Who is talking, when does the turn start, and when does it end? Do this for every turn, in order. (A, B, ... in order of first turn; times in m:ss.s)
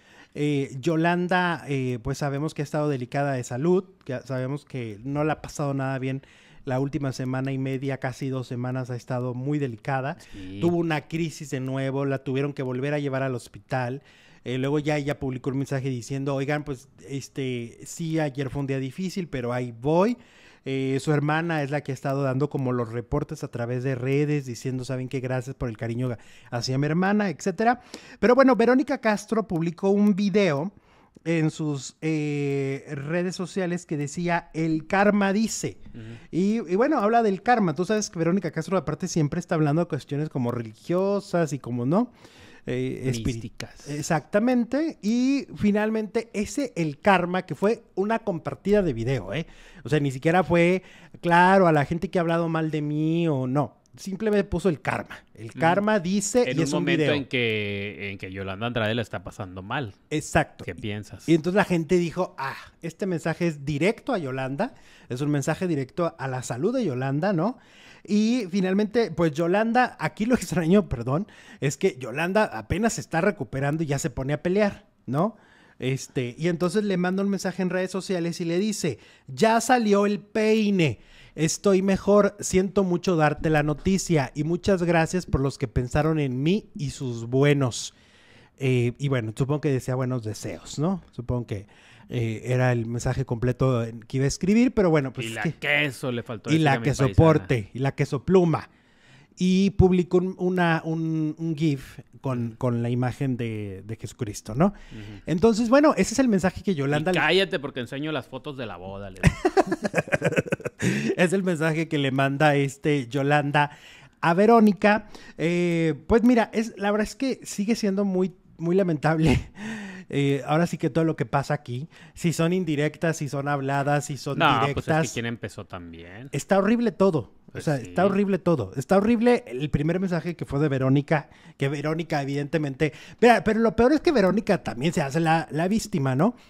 0:00.4-0:30.7 A
0:10.2-0:10.7 B
0:31.3-0:35.8 A
0:36.3-0:42.1 A
0:42.7-0:57.2 A
0:43.0-0:44.0 B
0:55.6-0:55.8 B
0:56.4-1:00.0 B
1:00.1-1:00.7 A
1:00.6-1:01.3 B
1:01.3-1:27.9 A
1:28.6-1:35.6 A
1:35.2-1:37.5 B
1:36.5-1:38.7 A
1:39.4-1:44.7 A
1:44.9-1:45.2 B
1:45.3-1:47.3 A
1:46.9-1:49.8 B
1:49.4-2:05.2 A
2:04.3-2:06.3 B
2:06.3-2:16.4 A
2:07.5-2:08.2 B